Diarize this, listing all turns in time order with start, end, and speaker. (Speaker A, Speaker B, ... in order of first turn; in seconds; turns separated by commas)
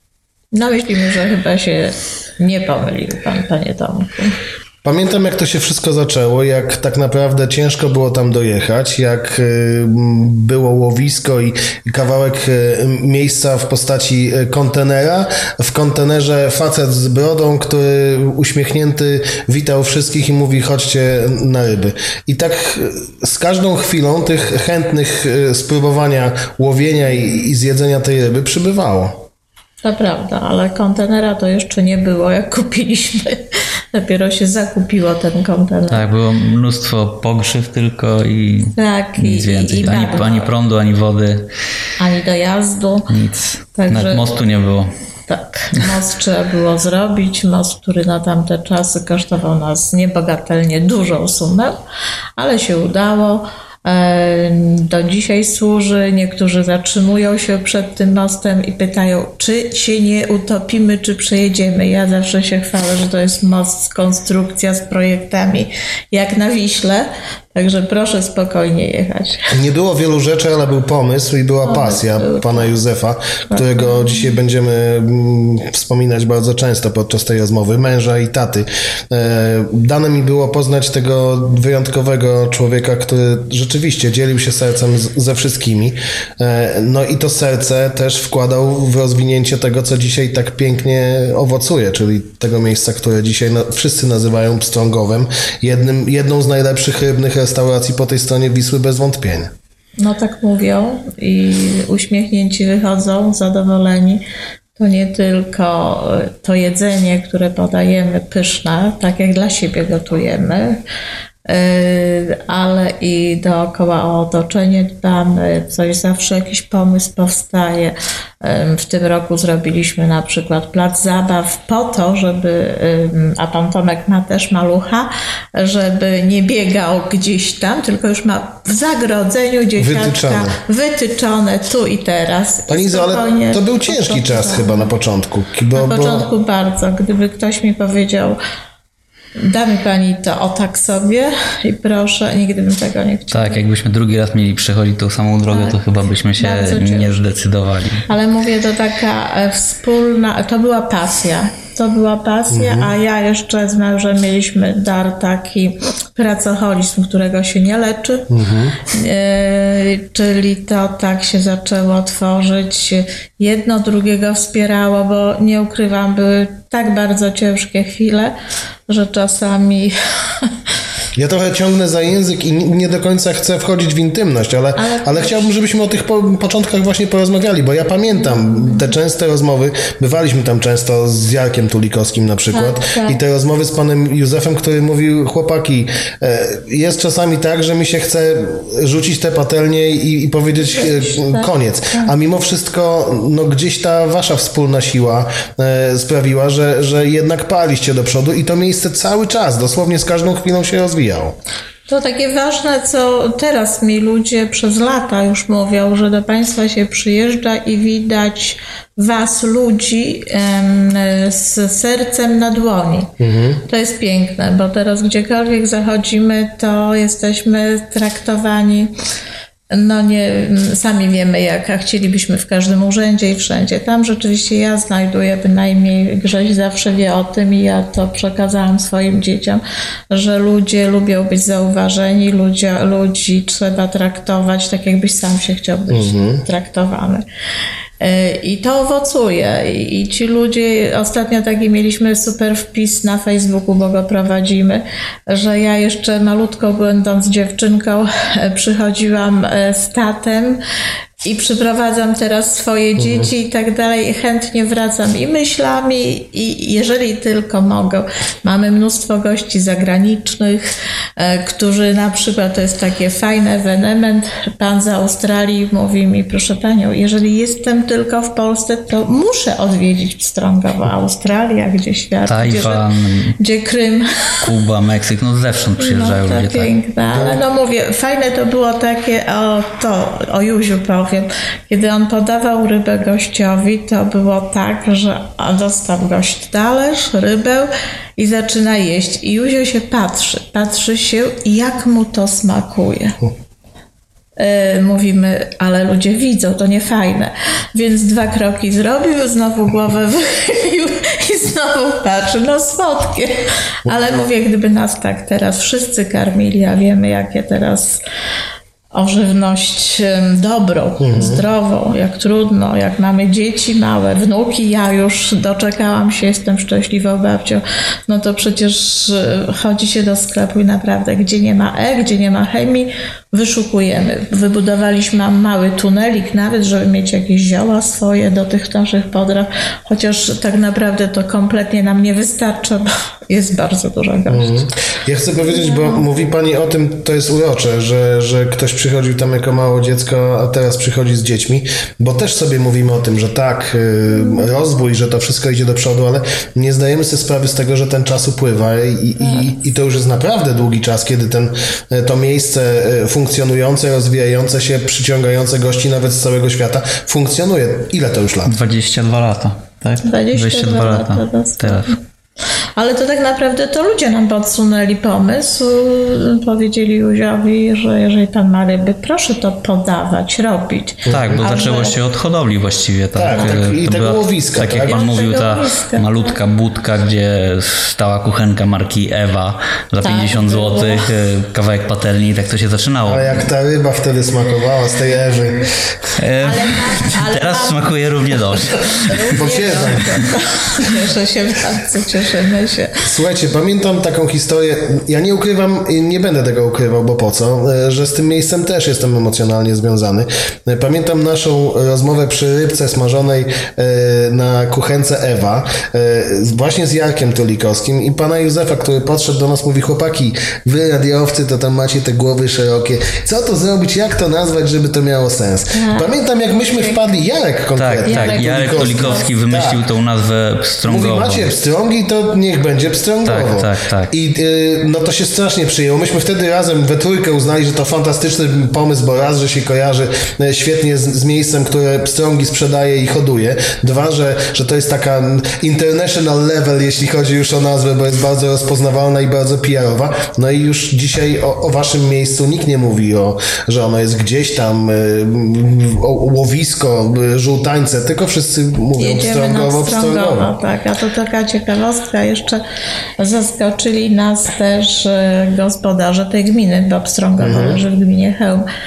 Speaker A: 0.5-4.4, Speaker B: 4.8-29.2, Speaker A: 29.8-36.1, Speaker C: 35.9-41.5, Speaker A: 38.8-40.5, Speaker A: 42.0-43.1, Speaker C: 43.1-44.9, Speaker A: 43.8-44.3, Speaker A: 45.3-51.8, Speaker A: 52.4-69.5, Speaker B: 69.5-99.5, Speaker A: 71.6-72.7, Speaker A: 73.5-74.2, Speaker A: 100.0-104.2, Speaker A: 104.8-110.8, Speaker A: 111.5-134.9, Speaker B: 129.8-130.6, Speaker B: 132.7-136.3, Speaker A: 135.7-138.4, Speaker A: 139.4-143.6, Speaker C: 143.3-148.1, Speaker A: 145.5-145.8, Speaker A: 146.4-147.2, Speaker A: 148.1-158.3, Speaker B: 152.5-152.9, Speaker B: 158.3-158.8, Speaker A: 158.8-168.3, Speaker A: 168.9-170.5, Speaker B: 171.1-201.3, Speaker A: 174.8-175.5, Speaker A: 178.3-178.9, Speaker A: 182.5-183.2, Speaker A: 190.6-192.1, Speaker A: 201.9-213.1, Speaker B: 213.2-213.6, Speaker A: 213.7-218.9, Speaker A: 219.7-237.2, Speaker B: 235.9-236.4, Speaker A: 238.0-250.6, Speaker A: 251.2-272.9, Speaker B: 253.0-253.3, Speaker C: 272.3-273.4, Speaker A: 273.4-274.5, Speaker C: 274.4-276.7, Speaker A: 275.8-293.2, Speaker B: 277.1-277.4, Speaker A: 294.4-308.0, Speaker A: 308.9-334.7, Speaker B: 311.0-311.4, Speaker B: 334.3-358.5, Speaker A: 335.4-336.0, Speaker A: 344.1-344.5, Speaker A: 349.2-349.5, Speaker C: 358.4-361.9, Speaker A: 360.0-362.0, Speaker A: 362.8-372.0, Speaker B: 371.1-371.4, Speaker C: 371.1-383.4, Speaker B: 373.1-375.2, Speaker A: 374.9-376.4, Speaker A: 380.0-381.1, Speaker B: 383.1-385.7, Speaker C: 386.2-389.3, Speaker A: 386.4-387.8, Speaker A: 388.3-393.0, Speaker B: 389.4-390.2, Speaker B: 393.0-419.8, Speaker A: 415.7-416.1, Speaker A: 416.7-417.0, Speaker C: 417.8-421.5, Speaker A: 418.0-419.3, Speaker B: 420.9-450.5, Speaker C: 423.2-424.1, Speaker A: 448.9-452.6, Speaker A: 453.2-458.6, Speaker B: 457.4-457.8